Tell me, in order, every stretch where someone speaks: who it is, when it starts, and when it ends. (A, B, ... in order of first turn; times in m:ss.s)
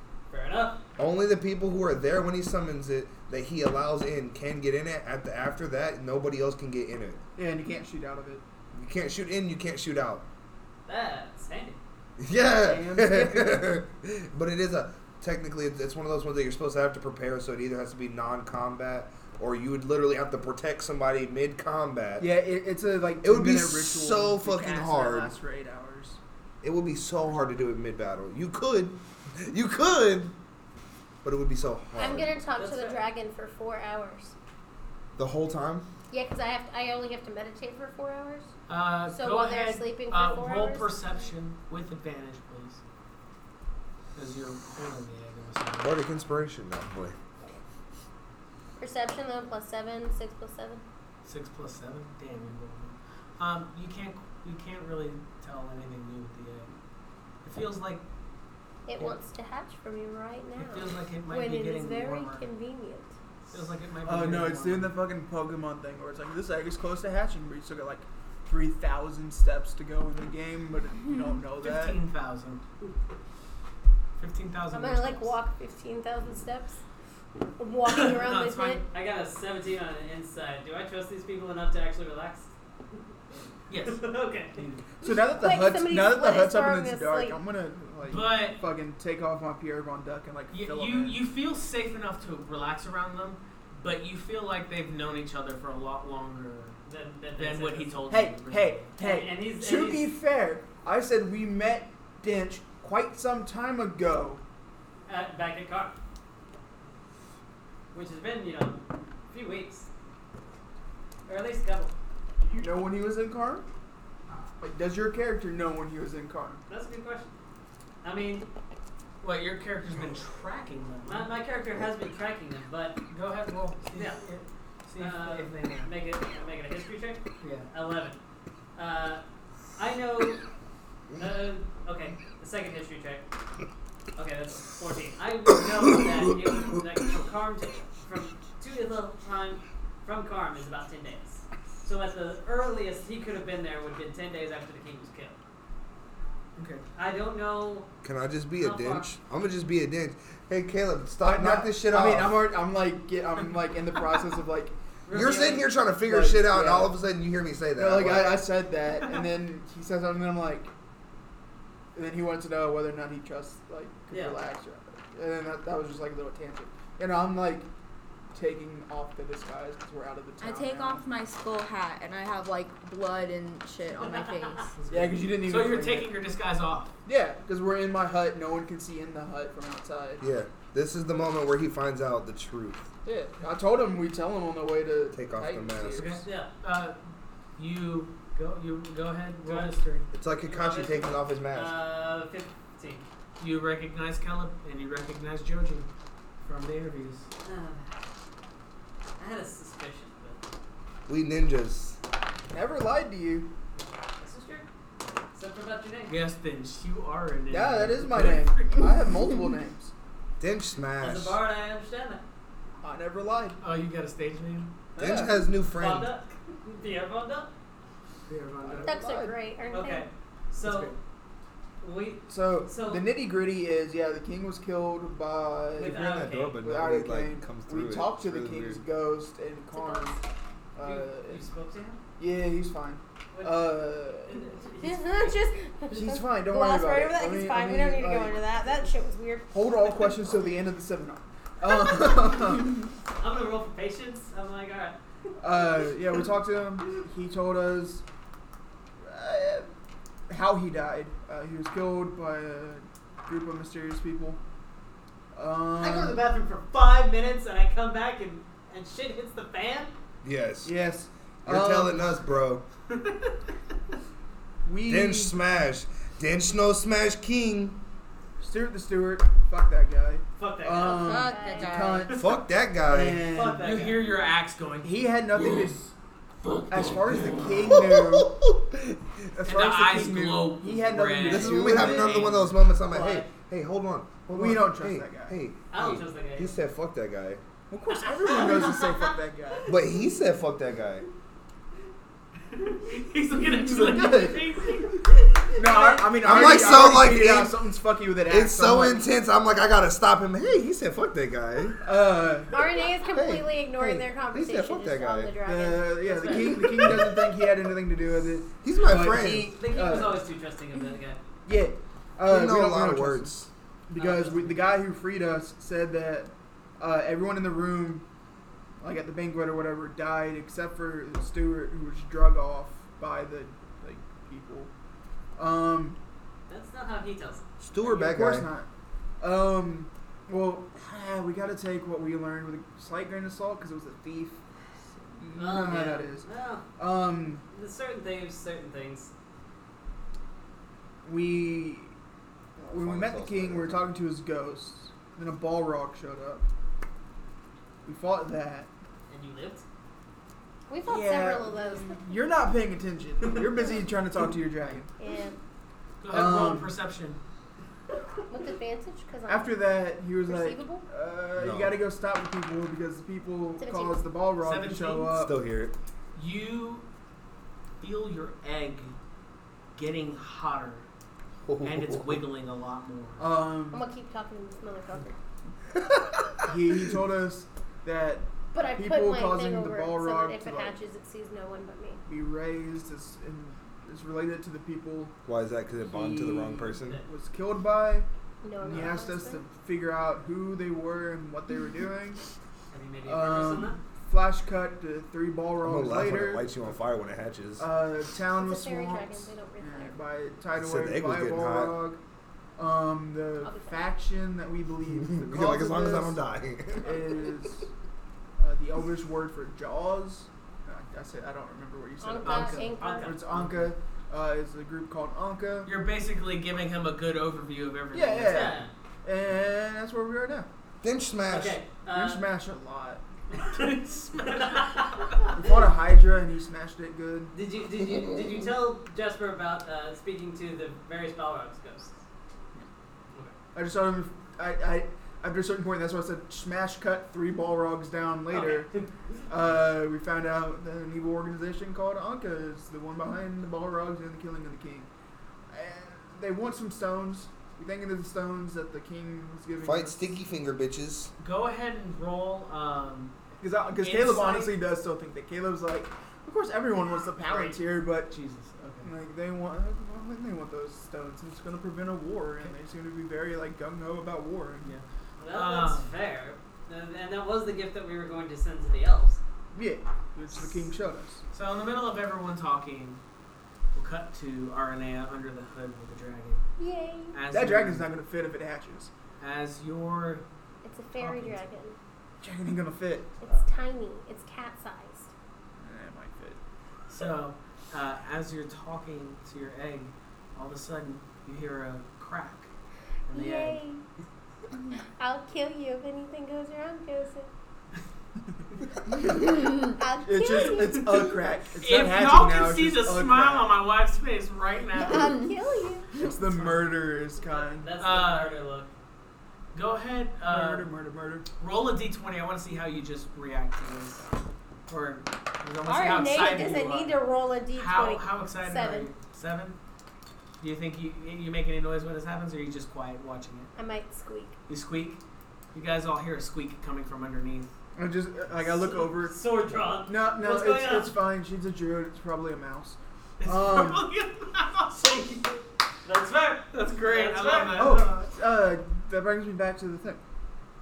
0:00.3-0:00.8 A
0:01.0-0:07.2 B
0:07.4-0:08.4 C
0:08.7-0:10.2 B
0:10.9-0:11.8 A
0:12.2-0:22.3 B
0:12.6-0:13.8 C
0:22.2-0:26.2 C
0:23.2-0:25.3 B
0:26.6-0:30.3 B
0:31.2-0:32.3 B
0:32.0-0:34.3 D
0:32.6-0:33.0 A
0:35.2-0:35.9 B
0:36.1-0:38.5 D
0:38.7-0:42.8 E
0:39.1-0:40.9 D
0:44.2-0:46.0 E
0:45.8-0:47.2 B
0:48.8-0:50.8 D
0:51.2-0:56.7 E
0:57.4-0:58.0 E
0:58.9-1:03.1 D
1:00.6-1:02.5 E
1:03.5-1:04.9 E
1:04.0-1:12.0 C
1:11.6-1:12.6 E
1:14.2-1:15.3 E
1:14.7-1:16.8 D
1:17.6-1:18.8 D
1:17.8-1:18.8 E
1:18.9-1:22.5 A
1:23.7-1:24.9 E
1:23.8-1:24.6 A
1:25.0-1:31.2 C
1:25.4-1:27.4 D
1:28.1-1:28.6 E
1:30.5-1:36.8 E
1:36.9-1:38.0 A
1:37.4-1:38.9 E
1:38.1-1:44.4 C
1:39.0-1:40.1 A
1:45.1-1:46.0 A
1:47.9-1:49.9 A
1:51.3-1:51.9 A
1:52.4-1:53.7 C
1:54.6-1:56.6 C
1:56.7-1:57.3 A
1:58.0-1:58.5 A
1:59.2-2:01.3 E
2:01.0-2:03.0 A
2:03.1-2:05.9 E
2:04.0-2:04.2 A
2:05.0-2:08.2 A
2:07.4-2:07.7 E
2:08.8-2:09.2 A
2:09.8-2:10.4 A
2:11.2-2:13.2 A
2:14.2-2:25.4 A
2:26.6-2:26.8 E
2:27.0-2:27.9 A
2:28.0-2:32.4 B
2:28.6-2:29.1 A
2:31.2-2:34.8 C
2:35.1-2:35.7 A
2:35.1-2:38.4 B
2:36.0-2:37.0 C
2:37.8-2:40.7 C
2:42.0-2:47.7 C
2:44.1-2:44.4 A
2:48.3-2:51.0 C
2:50.4-2:54.8 F
2:54.0-2:54.7 A
2:54.8-2:57.0 E
2:54.9-2:56.1 C
2:57.0-3:00.2 C
3:00.2-3:02.9 B
3:03.0-3:06.2 C
3:05.1-3:06.2 B
3:06.0-3:07.0 E
3:06.0-3:06.5 A
3:07.6-3:10.1 E
3:09.4-3:09.7 A
3:10.1-3:11.8 B
3:10.4-3:13.1 A
3:13.4-3:15.9 E
3:16.4-3:17.3 E
3:17.4-3:18.0 A
3:19.2-3:20.4 A
3:21.1-3:22.0 B
3:22.5-3:23.5 C
3:23.8-3:24.7 A
3:25.3-3:26.2 A
3:26.1-3:28.9 E
3:27.5-3:29.9 C
3:30.4-3:31.4 B
3:31.0-3:32.2 A
3:32.8-3:33.6 C
3:33.6-3:34.7 E
3:35.0-3:37.5 A
3:35.0-3:36.1 B
3:35.0-3:35.4 C
3:38.3-3:38.9 E
3:38.6-3:39.4 C
3:38.8-3:40.1 D
3:39.7-3:40.9 A
3:40.6-3:41.0 E
3:41.8-3:43.0 A
3:42.3-3:50.2 C
3:45.8-3:46.6 A
3:45.8-3:48.8 B
3:49.7-3:50.2 D
3:50.8-3:51.4 C
3:50.8-3:52.0 A
3:52.2-3:54.4 C
3:53.3-3:55.3 A
3:54.8-3:59.5 D
3:55.9-3:58.4 C
3:59.5-4:02.8 C
4:03.2-4:05.0 A
4:05.4-4:08.0 C
4:09.0-4:09.7 C
4:10.3-4:14.4 C
4:15.3-4:16.2 C
4:15.8-4:19.9 A
4:20.2-4:20.7 B
4:20.6-4:22.4 C
4:21.4-4:22.6 B
4:24.6-4:25.4 C
4:24.8-4:27.8 B
4:28.4-4:32.3 C
4:30.4-4:32.3 A
4:30.9-4:32.1 F
4:31.1-4:31.8 D
4:32.1-4:33.3 B
4:32.9-4:33.7 C
4:33.3-4:34.2 A
4:33.6-4:37.6 E
4:34.8-4:35.8 C
4:36.7-4:38.3 C
4:37.6-4:39.3 B
4:39.4-4:42.3 C
4:39.4-4:42.6 E
4:41.2-4:47.4 B
4:42.8-4:43.3 A
4:44.3-4:45.4 C
4:45.7-4:46.5 A
4:47.7-4:49.7 C
4:48.0-4:49.1 A
4:49.7-4:51.1 B
4:52.5-4:55.2 E
4:53.4-4:54.4 C
4:55.5-4:56.9 A
4:55.6-4:59.0 C
4:56.2-4:57.6 B
4:58.3-5:01.8 B
5:01.8-5:02.6 C
5:02.5-5:07.2 D
5:03.1-5:05.4 B
5:05.4-5:10.2 C
5:06.1-5:06.6 A
5:08.6-5:09.5 B
5:09.5-5:11.2 A
5:11.4-5:13.4 C
5:12.3-5:13.5 B
5:13.9-5:18.1 C
5:14.0-5:14.7 A
5:18.8-5:24.7 C
5:25.4-5:26.0 C
5:26.5-5:27.4 A
5:27.6-5:28.5 B
5:27.8-5:28.7 C
5:29.2-5:34.4 C
5:34.9-5:37.4 C
5:35.4-5:36.7 A
5:37.5-5:39.1 A
5:41.0-5:41.9 C
5:42.6-5:46.5 C
5:42.7-5:43.9 B
5:47.8-5:48.7 C
5:49.1-5:49.6 A
5:50.7-5:52.1 D
5:50.8-5:54.9 C
5:55.0-5:55.4 D
5:56.0-5:57.2 E
5:56.1-5:56.7 C
5:58.3-5:59.6 D
5:59.3-6:05.4 C
6:00.2-6:00.9 D
6:01.4-6:01.8 B
6:03.6-6:04.0 D
6:04.4-6:05.2 E
6:05.2-6:05.8 B
6:06.2-6:06.9 E
6:07.8-6:09.0 E
6:09.8-6:10.9 E
6:11.4-6:12.2 B
6:11.6-6:13.3 E
6:13.2-6:13.8 C
6:13.7-6:15.1 D
6:15.8-6:16.9 B
6:16.4-6:20.8 C
6:18.5-6:22.0 D
6:22.1-6:25.2 C
6:25.2-6:27.0 B
6:25.8-6:28.1 C
6:28.4-6:29.4 D
6:28.6-6:32.2 C
6:32.7-6:33.8 A
6:33.1-6:36.8 C
6:35.6-6:37.7 B
6:37.6-6:42.0 C
6:38.3-6:40.0 D
6:40.6-6:41.8 B
6:42.6-6:46.2 C
6:43.4-6:43.8 D
6:44.9-6:47.3 B
6:46.8-6:47.7 C
6:48.4-6:55.7 C
6:52.0-6:53.1 D
6:52.2-6:52.7 E
6:52.6-6:53.4 A
6:53.3-6:53.7 E
6:55.7-6:58.6 E
6:57.9-7:00.5 C
6:58.3-6:58.7 A
7:00.8-7:01.6 B
7:01.3-7:02.2 A
7:01.9-7:03.0 C
7:03.3-7:05.3 A
7:03.5-7:05.0 E
7:05.3-7:07.3 C
7:07.3-7:12.0 A
7:13.5-7:18.7 C
7:18.3-7:18.9 A
7:19.3-7:24.9 C
7:25.5-7:30.2 C
7:29.6-7:31.1 B
7:31.2-7:33.1 E
7:33.4-7:38.1 C
7:33.8-7:34.6 E
7:37.3-7:37.6 E
7:38.1-7:38.9 E
7:38.8-7:44.7 C
7:44.6-7:45.9 E
7:45.2-7:49.2 A
7:49.5-7:51.2 C
7:51.3-7:53.0 E
7:53.7-7:56.4 E
7:56.6-7:57.2 D
7:57.1-7:57.9 E
7:57.3-7:58.9 C
7:59.2-8:00.2 E
8:00.6-8:01.8 D
8:01.0-8:01.4 E
8:02.2-8:03.2 C
8:03.2-8:05.1 D
8:05.6-8:06.4 C
8:06.9-8:12.5 E
8:13.1-8:13.6 E
8:13.1-8:13.8 D
8:15.0-8:17.3 D
8:18.9-8:19.5 C
8:19.1-8:21.2 D
8:20.0-8:23.5 C
8:21.6-8:25.2 E
8:24.8-8:25.9 D
8:25.9-8:27.7 C
8:26.0-8:26.6 E
8:27.2-8:28.7 A
8:27.8-8:28.3 E
8:29.5-8:30.7 E
8:30.3-8:31.3 C
8:31.4-8:34.0 E
8:34.7-8:37.0 E
8:35.6-8:38.9 D
8:37.6-8:39.6 E
8:40.4-8:43.5 E
8:43.6-8:44.4 D
8:44.5-8:45.0 E
8:45.5-8:47.5 E
8:47.8-8:49.2 C
8:48.4-8:51.0 A
8:49.9-8:53.9 C
8:53.2-8:55.2 E
8:54.8-8:55.3 A
8:55.8-8:58.1 A
8:56.5-8:57.9 E
8:57.5-9:00.0 C